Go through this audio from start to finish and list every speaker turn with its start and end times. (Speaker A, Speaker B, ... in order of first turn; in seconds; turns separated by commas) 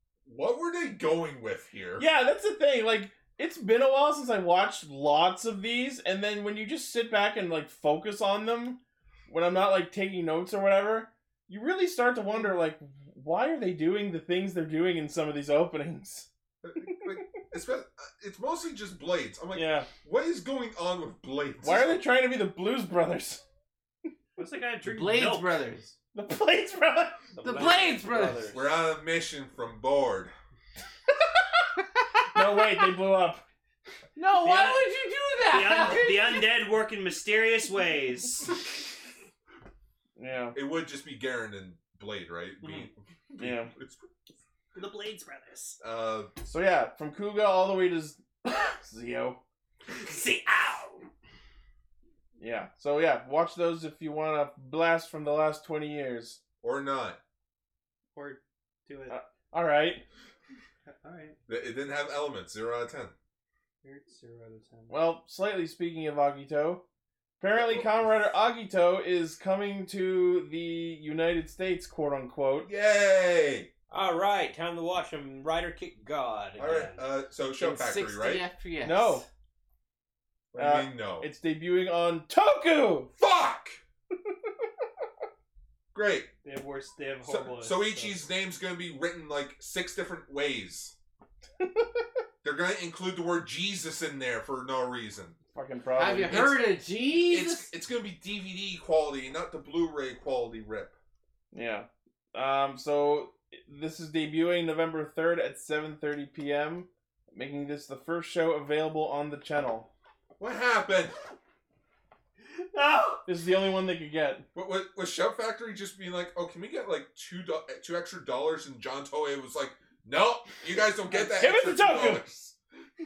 Speaker A: 0.2-2.1, Speaker B: 2.0-16.3, Speaker A: 16.6-22.0, Speaker B: 19.5-19.9, Speaker B: 21.6-23.4, Speaker C: 24.4-25.6, Speaker D: 24.9-26.0, Speaker B: 26.1-27.3, Speaker E: 27.4-28.7, Speaker D: 27.4-28.5, Speaker A: 28.5-30.3, Speaker B: 32.2-33.5, Speaker D: 34.2-36.5, Speaker C: 34.4-34.9, Speaker C: 35.4-38.5, Speaker B: 40.2-40.6, Speaker A: 40.5-44.1, Speaker C: 42.6-42.9, Speaker B: 43.4-43.7, Speaker C: 44.8-45.8, Speaker A: 45.8-46.3, Speaker B: 46.4-49.4, Speaker C: 49.9-51.1, Speaker B: 52.4-56.4, Speaker A: 56.6-57.2, Speaker C: 58.1-59.2, Speaker B: 59.1-60.0, Speaker C: 60.9-61.4, Speaker A: 61.5-63.1, Speaker C: 63.8-65.0, Speaker B: 64.9-66.8, Speaker B: 67.4-72.7, Speaker A: 67.5-68.3, Speaker A: 72.6-73.7, Speaker E: 73.9-77.1, Speaker A: 76.6-78.5, Speaker D: 77.5-79.3, Speaker B: 78.8-79.3, Speaker A: 80.5-81.3, Speaker B: 80.6-83.1, Speaker A: 83.2-83.8, Speaker A: 85.9-86.3, Speaker C: 86.4-88.2, Speaker A: 87.2-91.0, Speaker B: 91.6-91.9, Speaker A: 92.4-95.4, Speaker B: 95.5-96.4, Speaker D: 95.9-97.7, Speaker A: 96.2-101.0, Speaker B: 101.5-109.9, Speaker A: 110.4-111.2, Speaker C: 112.5-113.3, Speaker B: 113.3-114.5, Speaker A: 114.5-122.5, Speaker B: 121.1-122.3